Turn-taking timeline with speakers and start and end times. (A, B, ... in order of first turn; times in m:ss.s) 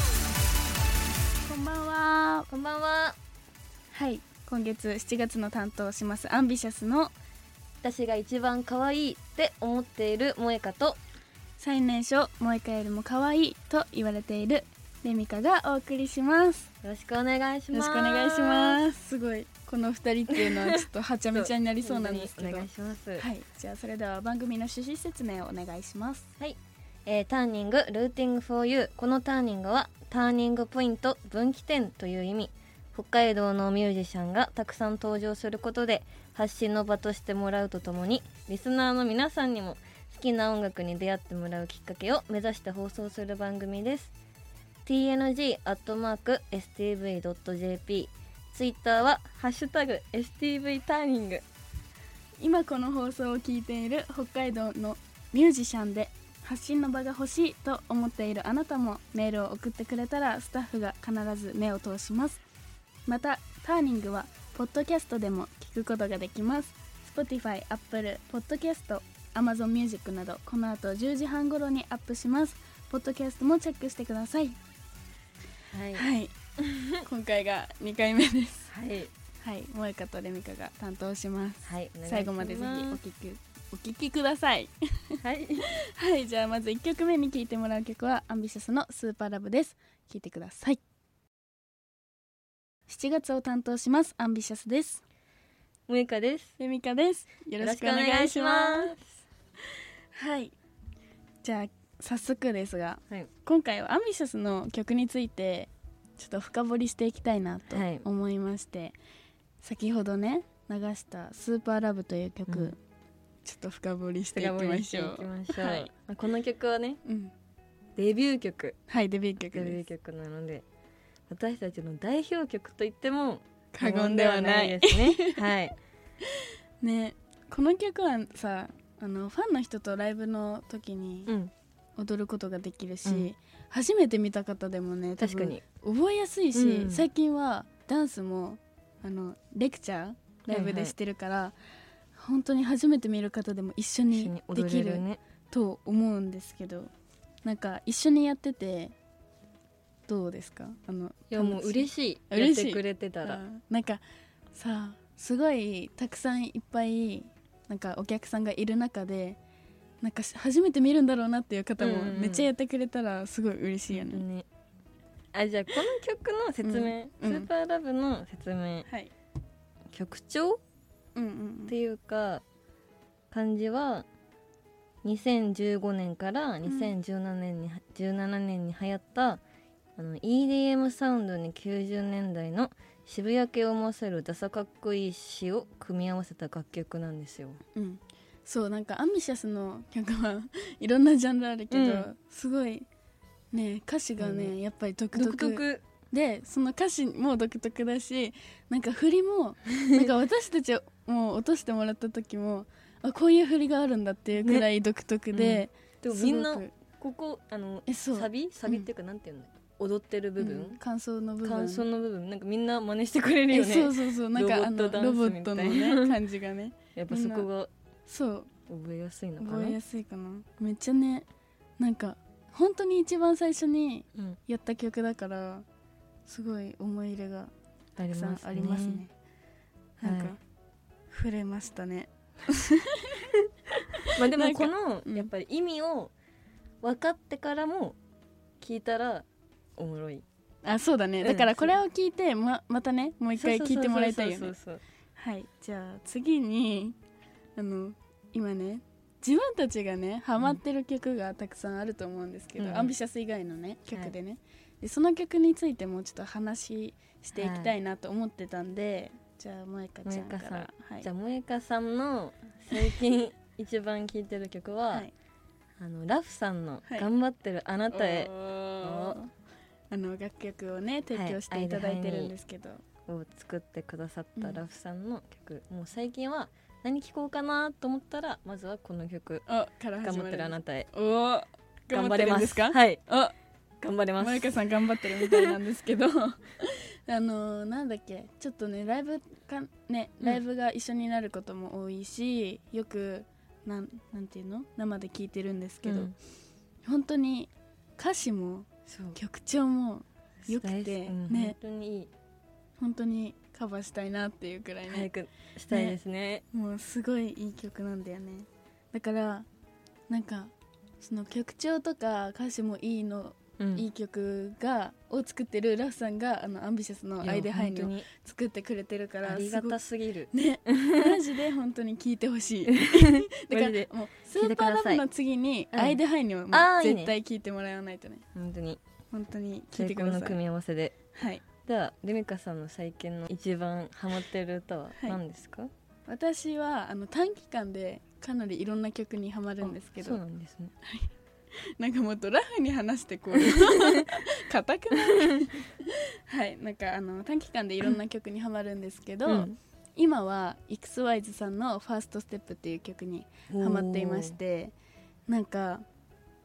0:01.4-0:02.5 A
0:02.5-0:03.2 B
0:03.9-0:07.1 A
0:07.8-0:11.0 B
0:11.6-0:16.7 A
0:16.8-0:18.8 B
0:17.7-0:26.3 A
0:21.3-0:23.2 B
0:26.4-0:44.1 B
0:44.8-0:51.4 B
0:52.4-1:02.4 A
1:03.1-1:14.6 A
1:15.7-1:16.0 B
1:15.9-1:16.3 A
1:16.6-1:16.9 B
1:16.9-1:18.7 A
1:18.7-1:19.1 B
1:19.4-1:30.8 A
1:21.6-1:23.0 B
1:25.2-1:25.7 B
1:32.9-1:35.0 A
1:35.9-1:36.5 B
1:36.6-1:39.0 A
1:37.6-1:39.0 B
1:40.1-1:40.5 A
1:41.4-1:49.0 A
1:47.7-1:48.0 B
1:49.6-1:52.8 A
1:52.5-1:52.7 B
1:53.4-1:55.9 A
1:54.3-1:57.0 B
1:57.0-1:57.3 A
1:58.0-1:58.8 B
1:58.9-1:59.8 A
1:59.5-2:00.6 B
2:01.3-2:05.8 B
2:03.7-2:05.4 A
2:06.8-2:11.3 A
2:11.3-2:11.5 B
2:12.0-2:21.6 A
2:15.2-2:15.6 B
2:16.5-2:17.0 B
2:20.5-2:20.9 B
2:22.2-2:26.9 A
2:24.1-2:25.2 B
2:27.4-2:28.9 A
2:30.1-2:34.0 A
2:31.3-2:33.4 B
2:34.5-2:39.4 A
2:40.0-2:44.2 A
2:41.8-2:42.5 B
2:43.9-2:44.4 B
2:45.3-2:48.9 B
2:46.6-2:47.5 A
2:48.9-2:49.1 A
2:49.9-2:50.6 B
2:51.1-2:51.7 A
2:51.7-2:52.4 B
2:53.3-2:54.0 B
2:55.0-2:59.4 B
2:56.6-2:56.9 A
3:00.0-3:07.6 B
3:07.7-3:12.9 A
3:11.7-3:12.1 B
3:13.5-3:26.7 A
3:14.2-3:14.5 B
3:15.1-3:15.8 B
3:25.3-3:30.8 B
3:27.9-3:28.9 A
3:30.4-3:31.8 A
3:31.4-3:36.1 B
3:33.5-3:37.5 A
3:36.9-3:37.7 B
3:38.1-3:38.5 A
3:38.7-3:39.8 B
3:39.4-3:41.3 A
3:41.8-3:45.6 A
3:46.3-3:47.5 A
3:48.0-3:49.0 B
3:48.1-3:49.1 A
3:50.0-3:50.4 A
3:50.0-3:50.3 B
3:51.1-3:53.2 A
3:54.0-3:56.1 B
3:54.2-3:55.3 A
3:56.8-3:58.0 B
3:58.6-3:59.2 B
3:59.8-4:00.2 B
4:00.6-4:04.5 A
4:01.2-4:01.8 B
4:03.4-4:04.8 B
4:05.2-4:07.0 A
4:07.6-4:21.1 A
4:12.6-4:12.9 B
4:17.4-4:17.7 B
4:20.0-4:25.1 B
4:25.8-4:29.2 B
4:27.9-4:29.3 A
4:29.9-4:32.8 A
4:31.1-4:32.3 B
4:33.1-4:39.4 B
4:34.4-4:34.6 A
4:39.4-4:43.3 A
4:40.0-4:40.9 B
4:41.9-4:43.0 B
4:43.8-4:44.5 B
4:44.2-4:56.1 A
4:45.1-4:45.5 B
4:55.8-4:56.1 B
4:56.8-5:01.6 A
4:58.9-4:59.2 B
5:00.5-5:02.1 B
5:02.8-5:05.1 A
5:04.8-5:06.4 B
5:05.7-5:06.0 A
5:06.5-5:09.5 A
5:10.1-5:19.8 A
5:13.6-5:13.8 B
5:17.2-5:18.1 B
5:19.2-5:21.0 B
5:20.3-5:28.2 A
5:22.7-5:25.0 B
5:25.7-5:26.0 B
5:26.5-5:27.1 B
5:28.3-5:28.8 B
5:29.1-5:30.4 A
5:29.7-5:30.9 B
5:31.1-5:31.4 A
5:31.6-5:35.7 B
5:36.1-5:40.2 A
5:39.6-5:40.7 B
5:40.8-5:41.1 A
5:41.8-5:54.7 A
5:43.5-5:44.0 B
5:49.2-5:49.6 B
5:53.5-5:54.4 B
5:55.3-5:55.8 A